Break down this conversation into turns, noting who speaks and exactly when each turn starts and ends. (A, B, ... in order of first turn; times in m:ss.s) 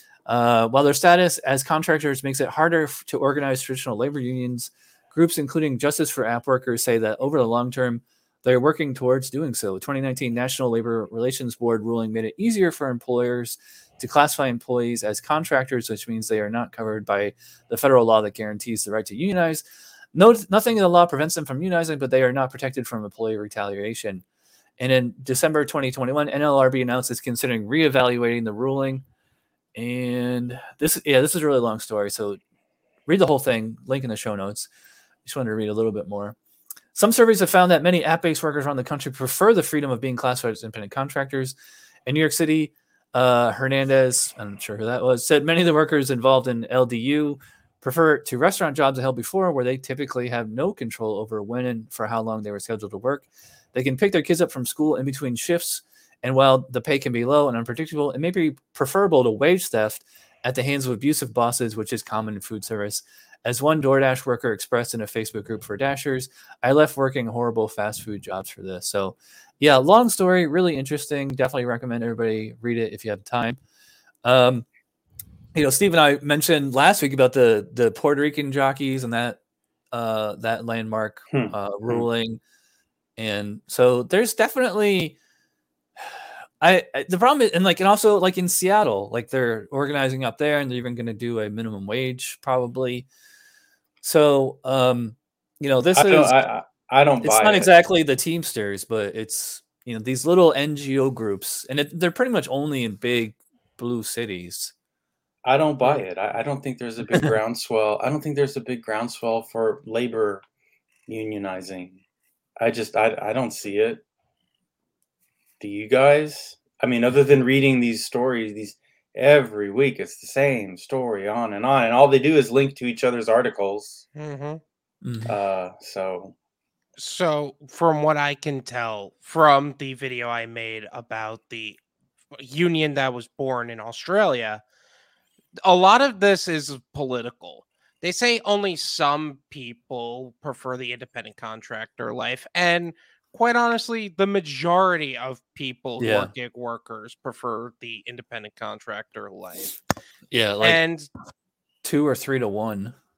0:00.3-0:24.2 A
0:24.8-0:29.0 A
0:29.8-0:32.4 A
0:33.1-0:34.7 A
0:35.2-0:36.4 A
0:36.9-0:41.6 A
0:42.1-1:13.6 A
1:14.2-1:14.7 A
1:15.5-1:19.4 A
1:19.9-1:22.4 A
1:21.3-1:22.1 B
1:23.2-1:25.2 A
1:26.0-1:33.1 A
1:34.0-1:36.4 A
1:35.9-1:37.8 B
1:37.2-1:44.7 A
1:45.4-1:50.4 B
1:51.1-1:52.0 B
1:52.6-1:54.0 B
1:55.6-2:04.0 B
2:04.2-2:04.6 C
2:05.0-2:05.4 A
2:05.3-2:06.3 B
2:07.0-2:11.8 C
2:12.3-2:14.6 C
2:15.6-2:29.8 C
2:26.0-2:26.3 A
2:30.3-2:30.8 A
2:30.6-2:31.1 C
2:31.8-2:33.0 A